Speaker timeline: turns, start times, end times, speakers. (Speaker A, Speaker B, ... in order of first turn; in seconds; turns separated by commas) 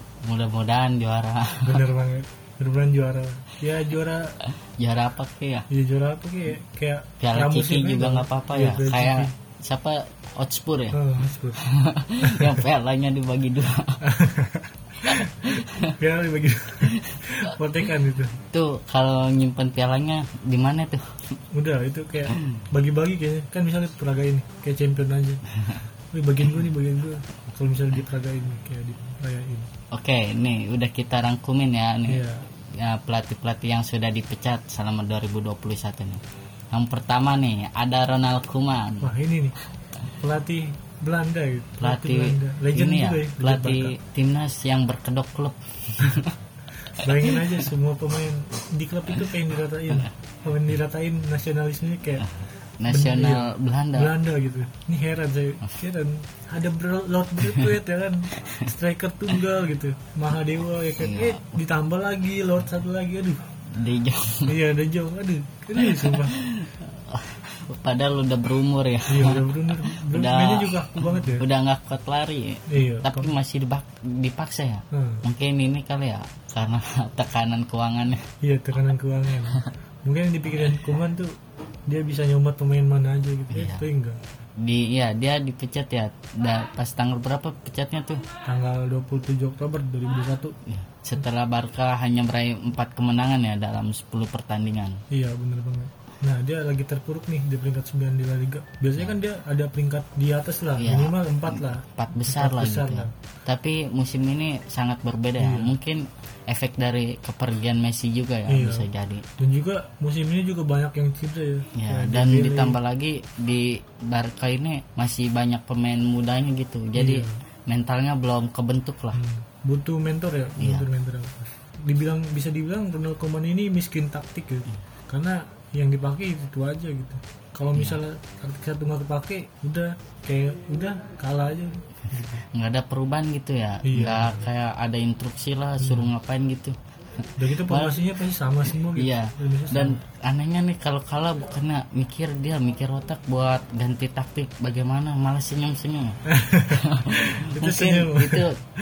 Speaker A: 0.2-1.8, Speaker B: 1.6-4.4, Speaker A: 4.5-5.7, Speaker B: 5.7-9.3, Speaker A: 7.2-11.0, Speaker B: 10.9-11.6, Speaker A: 11.5-14.0, Speaker B: 12.2-12.6, Speaker B: 14.0-18.4, Speaker A: 15.0-15.9, Speaker A: 16.9-17.2, Speaker A: 18.5-21.2, Speaker B: 21.5-25.4, Speaker A: 22.4-22.6, Speaker A: 25.5-25.8, Speaker B: 26.1-29.7, Speaker A: 29.9-39.1, Speaker B: 32.1-32.5, Speaker B: 39.0-39.5, Speaker B: 40.2-43.9, Speaker A: 41.8-46.4, Speaker A: 47.0-47.6, Speaker B: 47.0-52.2, Speaker A: 52.8-54.1, Speaker B: 52.9-63.5, Speaker A: 58.4-58.7, Speaker A: 61.0-61.6, Speaker A: 63.7-64.5, Speaker B: 64.5-66.4, Speaker A: 65.8-78.2, Speaker B: 69.1-71.5, Speaker B: 72.7-73.3, Speaker B: 74.9-75.2, Speaker B: 78.4-84.2, Speaker A: 83.5-83.8, Speaker A: 84.6-88.2, Speaker B: 88.4-90.6, Speaker A: 90.7-95.0, Speaker B: 95.1-103.1, Speaker A: 100.8-109.3, Speaker B: 105.4-105.7, Speaker B: 108.5-108.9, Speaker B: 109.4-112.8, Speaker A: 111.7-119.2, Speaker B: 116.9-117.3, Speaker B: 119.1-132.4, Speaker A: 120.6-120.9, Speaker A: 132.3-138.0, Speaker B: 133.8-134.4, Speaker B: 135.8-136.1, Speaker B: 137.4-140.0, Speaker A: 138.9-148.6, Speaker B: 146.3-148.5